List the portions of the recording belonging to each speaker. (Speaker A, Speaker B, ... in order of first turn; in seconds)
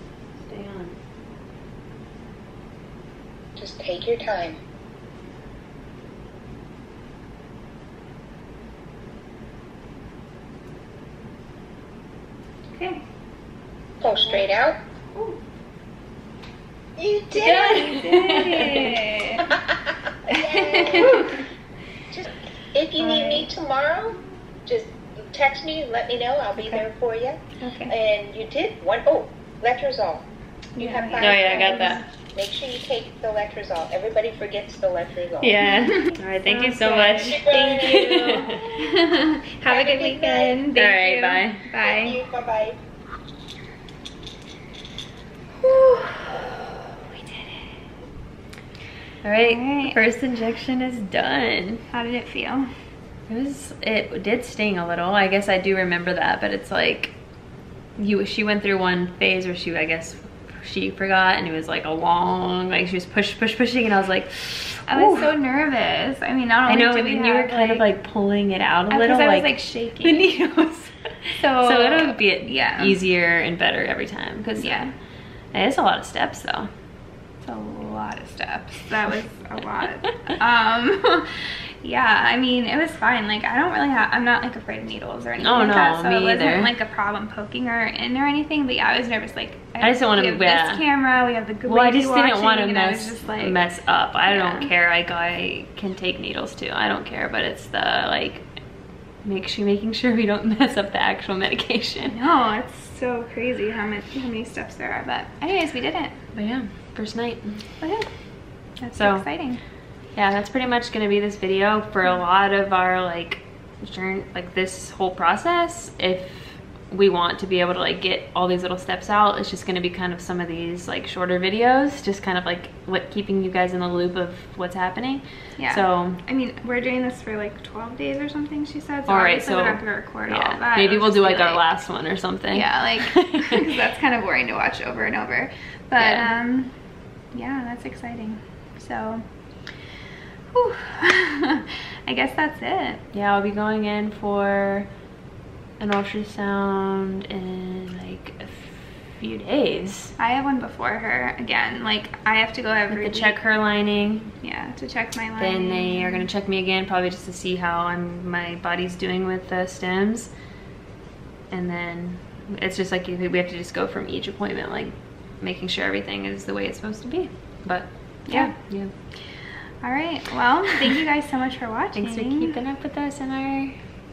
Speaker A: 0.4-1.0, 14.0-14.4, 17.4-19.0, 31.2-32.0, 35.4-38.6, 40.7-41.6, 45.7-46.1, 49.2-51.8, 53.3-57.1, 58.0-65.3, 66.7-74.8, 75.5-76.7, 85.4-86.7, 89.8-90.8, 91.7-98.5, 99.2-102.2, 106.3-107.7, 108.9-109.2, 110.1-126.2, 129.1-133.5, 136.0-136.3, 143.1-144.9, 145.8-150.1, 152.9-154.3, 155.4-160.3, 161.5-168.9, 171.9-173.8
Speaker B: 3.5-4.6, 14.0-14.8, 17.0-18.1, 19.4-21.3, 22.1-30.2, 30.8-35.6, 37.2-38.6, 39.6-40.6, 41.8-42.8
Speaker C: 12.7-13.0, 17.7-19.5, 20.3-21.4, 23.0-23.5, 27.6-27.9, 30.8-32.0, 36.0-42.2, 49.4-50.0, 51.9-52.7, 64.9-67.8, 68.9-70.4, 71.3-73.0, 74.6-74.9, 77.4-93.6, 94.2-94.7, 102.0-106.1, 107.8-109.6, 125.6-131.7, 132.5-136.8, 137.3-139.2, 140.5-143.0, 150.2-153.3, 154.4-156.3, 168.3-168.6, 169.8-172.6